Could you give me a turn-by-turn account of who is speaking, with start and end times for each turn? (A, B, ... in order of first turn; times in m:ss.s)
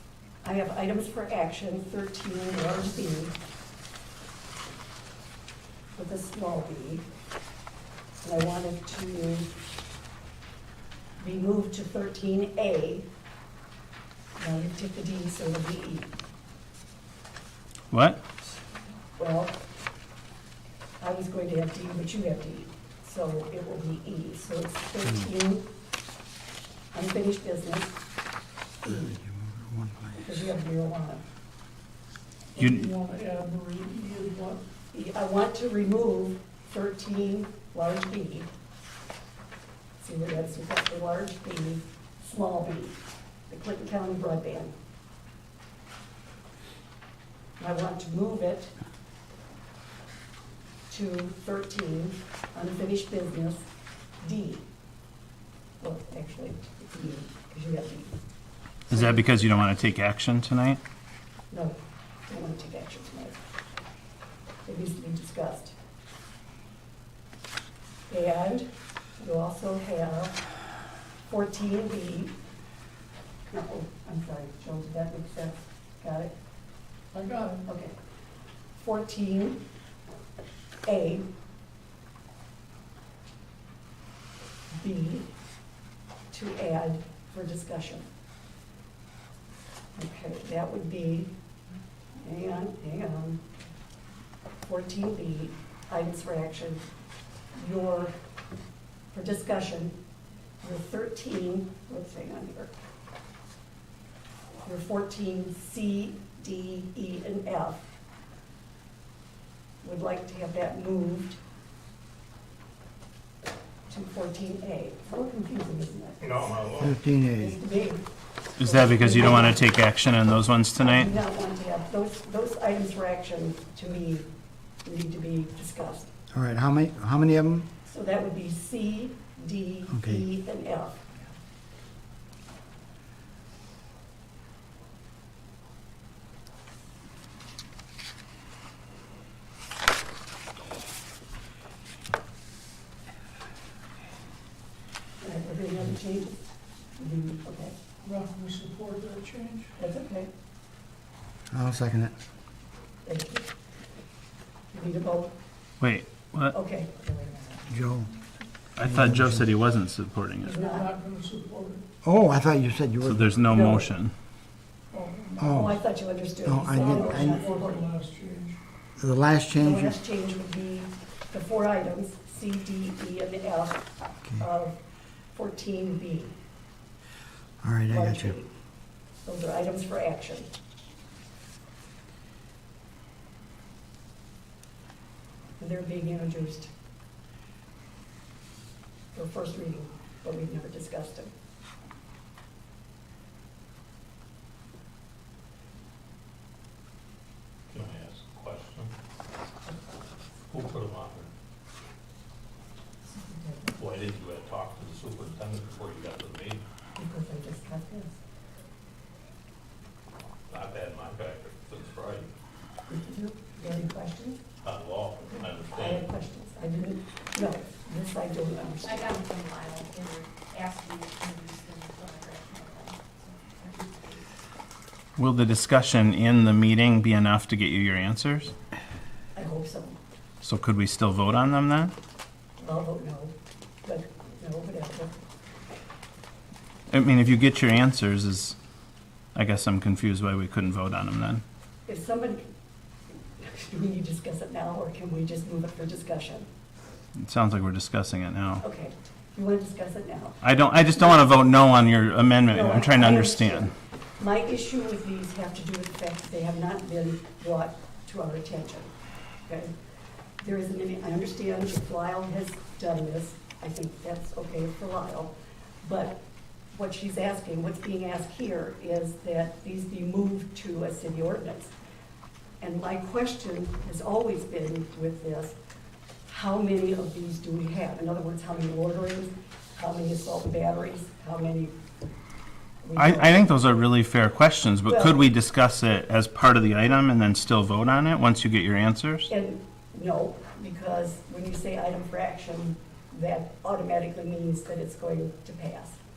0:00.4-0:03.4 A
0:06.0-0:07.1 A
0:08.2-0:09.5 A
0:11.2-0:13.1 A
0:14.4-0:16.1 A
0:17.9-0:18.2 B
0:19.2-0:19.6 A
0:21.0-0:25.7 A
0:26.9-0:28.0 A
0:28.8-0:29.2 A
0:28.9-0:30.5 C
0:30.2-0:31.2 A
0:32.6-0:32.9 B
0:32.6-0:34.6 D
0:34.9-0:38.5 A
0:40.0-0:43.0 A
0:43.5-0:44.7 A
0:47.6-0:48.7 A
0:50.9-0:53.7 A
0:54.2-0:54.6 A
0:55.8-0:58.2 A
0:58.9-1:00.8 B
0:58.9-0:59.2 A
1:01.5-1:03.4 A
1:04.7-1:05.7 A
1:08.1-1:10.4 A
1:11.3-1:12.4 A
1:13.5-1:16.3 A
1:17.1-1:17.6 D
1:17.6-1:17.9 A
1:18.8-1:19.6 A
1:20.8-1:21.3 A
1:24.7-1:25.3 A
1:26.3-1:28.1 A
1:29.9-1:31.3 A
1:32.2-1:33.4 A
1:34.7-1:36.9 A
1:37.6-1:38.1 A
1:39.1-1:40.0 A
1:40.6-1:42.7 A
1:44.6-1:47.9 A
1:49.8-1:51.4 A
1:53.9-1:56.5 A
1:56.2-1:56.9 E
1:56.8-1:57.6 C
1:57.4-1:58.0 A
1:58.6-1:59.6 A
1:58.6-2:01.1 B
2:00.8-2:04.3 A
2:04.8-2:06.1 A
2:06.3-2:07.7 C
2:07.8-2:11.0 A
2:09.9-2:10.2 C
2:25.2-2:26.4 A
2:27.0-2:27.8 A
2:28.0-2:29.7 D
2:29.8-2:30.3 A
2:31.5-2:32.2 C
2:33.1-2:33.5 A
2:34.7-2:35.3 A
2:35.8-2:36.6 B
2:36.5-2:37.3 A
2:37.7-2:38.1 C
2:38.8-2:40.6 B
2:38.8-2:39.5 C
2:40.4-2:40.9 A
2:40.5-2:41.8 D
2:42.0-2:43.4 C
2:43.0-2:44.1 B
2:43.5-2:43.9 A
2:44.9-2:45.5 D
2:45.4-2:45.8 C
2:45.4-2:47.9 A
2:46.4-2:47.4 C
2:46.8-2:48.6 D
2:49.0-2:50.0 C
2:49.6-2:53.8 A
2:54.4-2:54.8 A
2:55.3-2:56.4 A
2:57.6-2:58.4 C
2:57.9-2:58.5 A
2:59.2-3:00.5 A
3:05.6-3:06.7 A
3:09.1-3:11.3 A
3:17.7-3:18.9 E
3:20.5-3:21.3 E
3:23.1-3:23.8 A
3:23.8-3:26.6 E
3:27.0-3:28.2 A
3:30.5-3:32.3 E
3:32.9-3:34.4 A
3:34.6-3:36.1 E
3:35.3-3:39.2 A
3:38.8-3:44.3 F
3:45.2-3:48.5 B
3:49.3-3:50.0 A
3:50.4-3:51.9 B
3:52.6-3:55.1 A
3:56.9-3:58.6 B
3:59.3-4:01.4 B
4:01.9-4:02.5 A
4:03.4-4:06.5 A
4:07.2-4:08.6 B
4:08.6-4:10.4 A
4:10.4-4:13.7 B
4:12.5-4:18.9 A
4:19.5-4:19.7 A
4:20.4-4:31.7 A
4:32.6-4:35.6 A
4:36.3-4:41.8 A
4:42.8-4:43.4 A
4:43.0-4:49.3 B
4:44.9-4:45.2 A
4:49.3-4:56.0 A